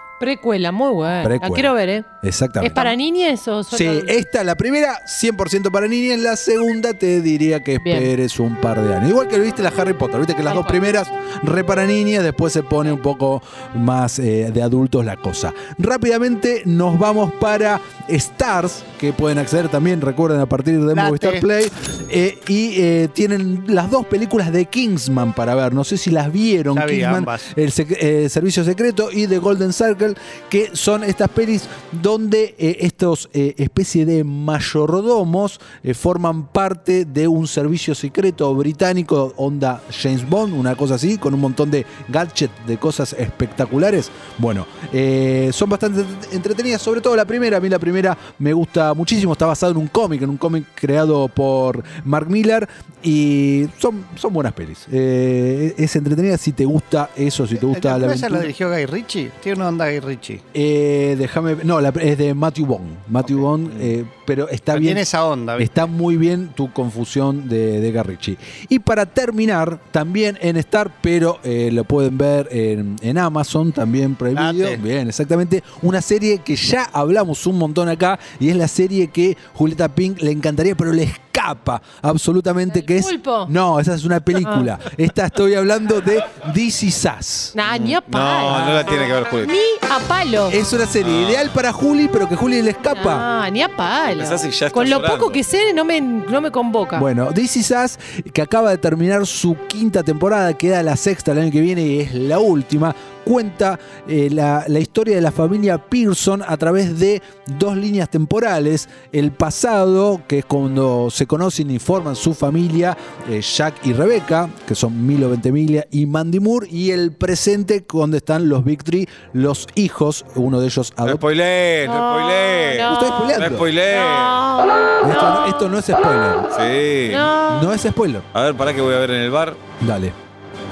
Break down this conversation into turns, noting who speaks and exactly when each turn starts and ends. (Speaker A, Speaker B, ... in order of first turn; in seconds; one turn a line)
Speaker A: 0.2-2.0
Speaker B: 1.2-3.0
Speaker A: 2.6-4.2
Speaker B: 3.7-58.5
Speaker A: 7.8-8.1
Speaker A: 10.4-10.8
Speaker C: 20.9-21.5
Speaker C: 26.7-27.5
Speaker C: 57.6-60.4
Speaker B: 60.5-65.0
Speaker C: 64.7-65.7
Speaker B: 65.5-87.5
Speaker C: 74.3-74.8
Speaker A: 82.7-83.5
Speaker A: 84.4-84.7
Speaker A: 87.5-90.6
Speaker D: 87.7-89.5
Speaker B: 90.5-93.2
Speaker D: 91.0-91.5
Speaker A: 92.9-97.0
Speaker D: 94.1-95.4
Speaker B: 96.9-121.2
Speaker D: 121.0-124.4
Speaker A: 121.8-123.3
Speaker B: 122.9-123.7
Speaker A: 123.9-125.5
Speaker B: 125.0-126.5
Speaker D: 126.5-127.3
Speaker A: 127.1-127.7
Speaker B: 127.5-128.3
Speaker D: 128.3-129.6
Speaker B: 129.8-130.1